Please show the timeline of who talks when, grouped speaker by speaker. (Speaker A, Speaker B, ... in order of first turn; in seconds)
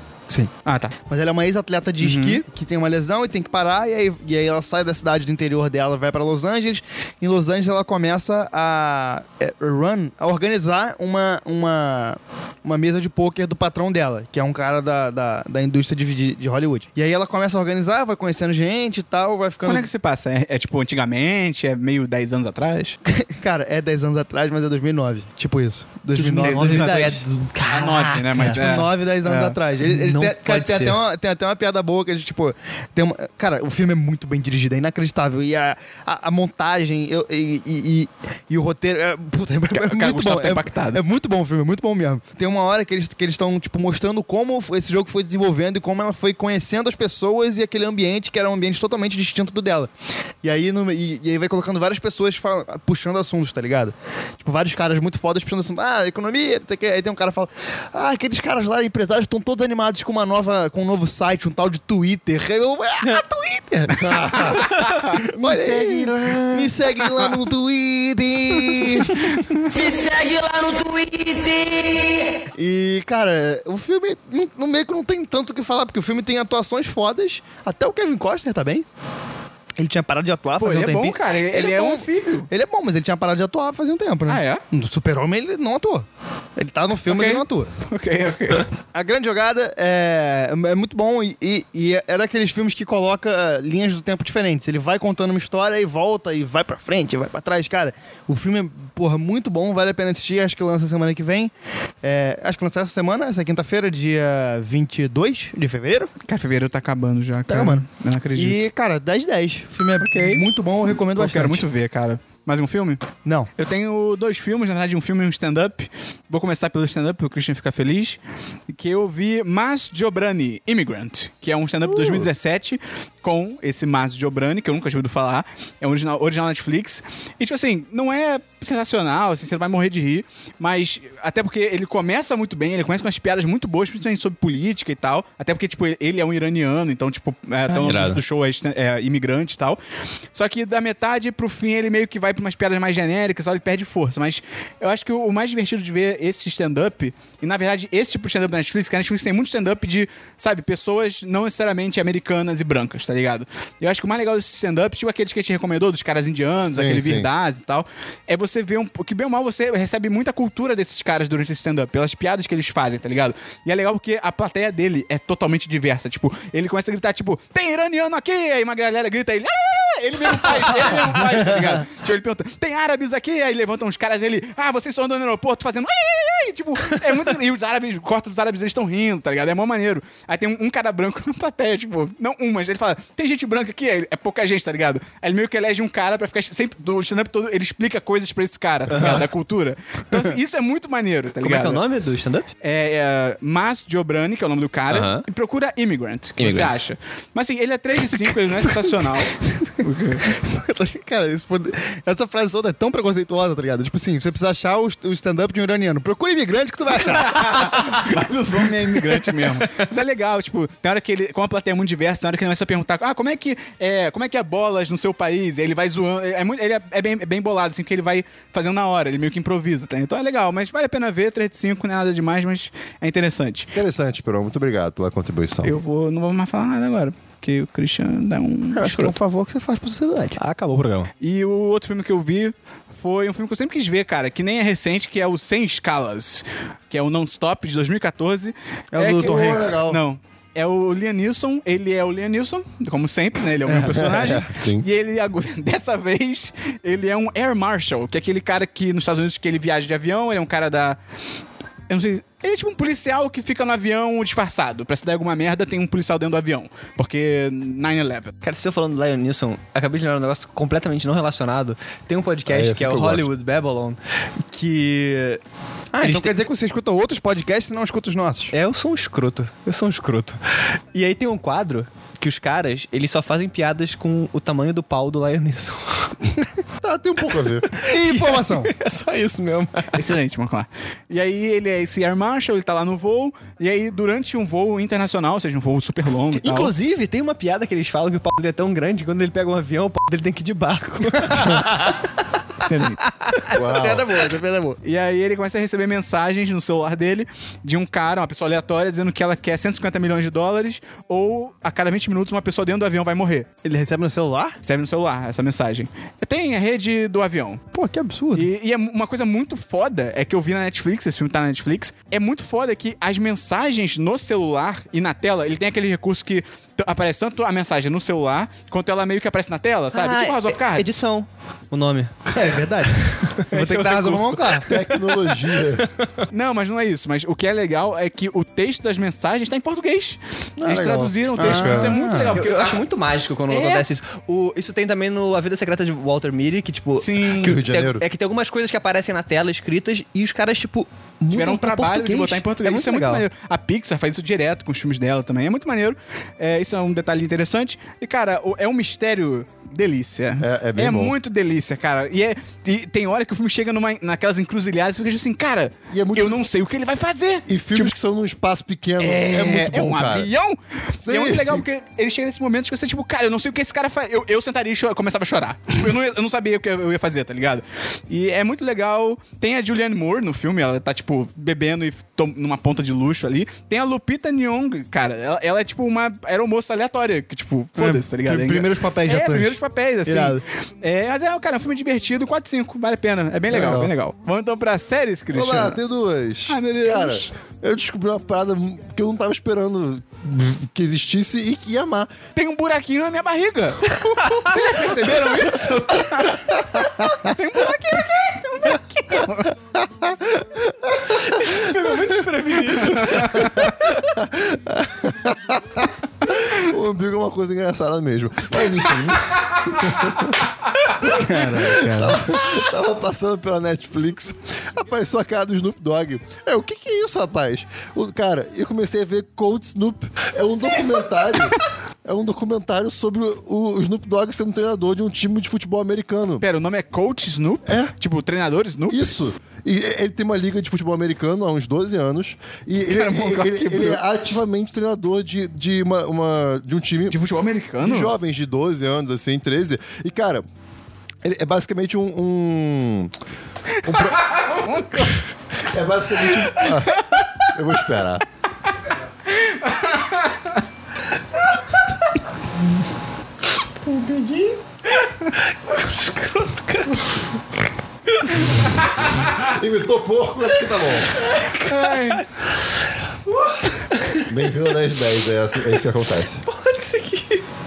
Speaker A: 0.7-0.9, 2.0-2.4, 19.6-23.0, 26.1-27.1, 27.7-29.6, 39.7-41.0, 80.6-82.5, 84.3-84.6, 87.1-88.7, 106.2-108.7, 110.0-118.2, 118.7-139.8, 140.3-191.8, 192.6-200.3, 207.0-223.7, 225.6-229.2, 231.2-251.0, 251.9-258.4, 279.9-286.7, 292.6-293.0, 294.8-303.6, 304.6-307.6, 308.3-320.9, 326.3-332.8, 333.5-333.9, 337.0-337.6, 341.3-357.9, 359.0-385.8, 386.5-387.3, 392.4-399.5, 402.6-403.8, 411.4-412.1, 426.4-429.0, 432.9-434.0, 437.1-438.1, 443.9-445.2, 446.4-447.5, 449.3-450.6, 461.6-462.2
Speaker B: 1.1-19.9, 23.1-27.2, 28.4-49.9, 50.4-64.5, 65.2-69.4, 72.5-78.9, 79.8-87.7, 88.9-101.5, 102.0-106.1, 107.5-107.8, 108.3-111.7, 113.2-113.5, 200.2-208.1, 228.7-230.4, 238.9-239.8, 243.7-243.9, 265.9-268.5, 277.8-278.7, 293.4-294.8, 303.6-304.6, 307.7-308.5, 322.3-324.7, 331.4-332.4, 377.8-380.4, 411.0-412.2
Speaker C: 26.2-28.6, 29.8-31.0, 137.8-138.2, 188.9-189.2, 191.4-192.5, 194.9-195.2, 196.4-196.8, 230.4-231.1, 258.4-264.0, 264.5-265.4, 266.0-266.4, 268.5-276.1, 277.7-280.0, 286.4-291.9, 319.9-322.1, 323.2-326.2, 332.4-343.2, 401.3-403.4, 455.5-457.2, 461.2-462.5, 463.3-464.6, 466.4-467.4
Speaker D: 63.9-66.8, 156.7-157.3, 223.7-225.8, 239.1-240.0, 243.9-244.9, 262.5-263.3, 276.8-277.7, 293.5-294.1, 324.7-325.9, 330.6-332.1, 337.4-338.0, 350.4-351.2, 355.9-356.4, 357.5-360.3, 361.0-361.6, 383.5-383.9, 385.3-392.1, 399.7-402.2, 403.0-410.3, 411.0-426.4, 427.7-427.9, 428.9-437.2, 437.8-440.4, 441.2-443.1, 443.8-444.4, 445.6-448.2, 453.8-454.6, 459.2-461.1, 464.3-466.4
Speaker E: 69.7-72.5